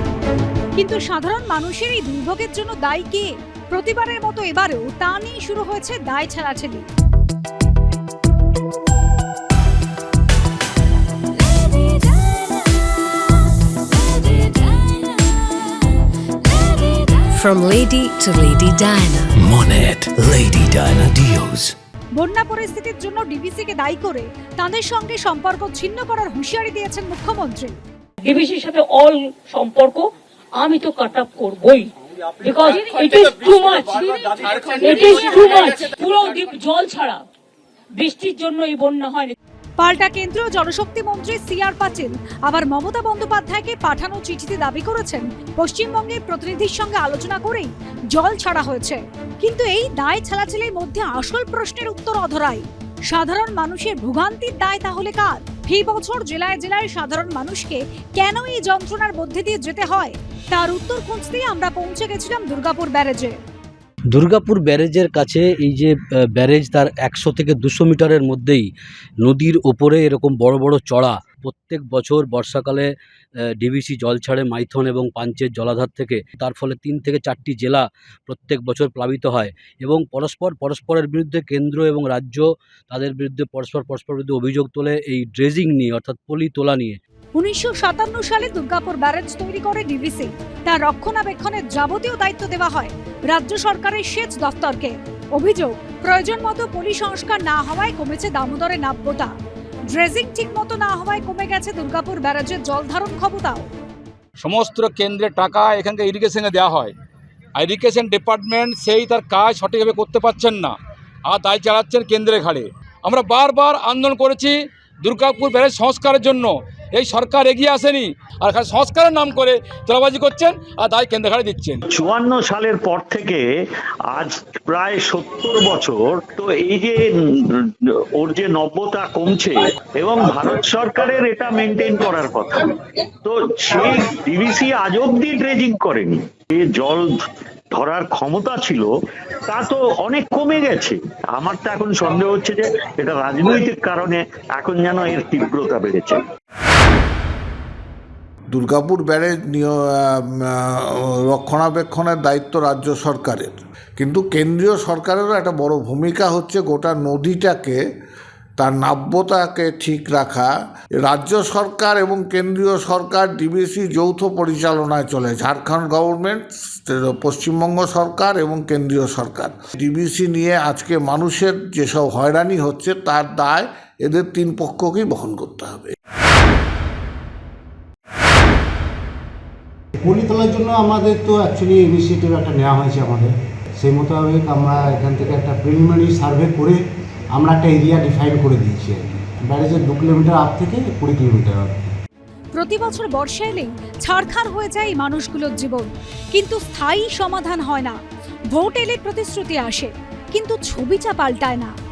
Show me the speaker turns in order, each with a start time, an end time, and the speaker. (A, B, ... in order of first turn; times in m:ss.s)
0:00.8-0:06.8 A
0:11.6-0:12.5 B
0:14.0-0:15.4 B
0:16.4-0:17.2 B
0:17.3-0:19.3 C
0:19.4-0:21.7 D
0:22.2-0:27.7 A
0:28.2-0:31.9 B
0:32.4-0:37.2 B
0:38.0-0:39.3 B
0:39.8-1:03.4 A
1:04.1-1:08.7 E
1:09.2-1:12.9 E
1:13.6-1:27.0 E
1:27.4-1:39.3 A
1:39.9-1:43.7 A
1:44.4-1:46.9 F
1:47.6-1:50.7 F
1:51.2-2:01.8 F
2:01.9-2:03.5 G
2:04.1-2:17.2 G
2:17.7-2:18.9 G
2:19.4-2:26.2 G
2:28.5-2:37.8 H
2:38.6-2:55.9 H
3:00.0-3:06.8 I
3:07.3-3:11.9 I
3:12.5-3:18.0 A
3:18.5-3:21.7 A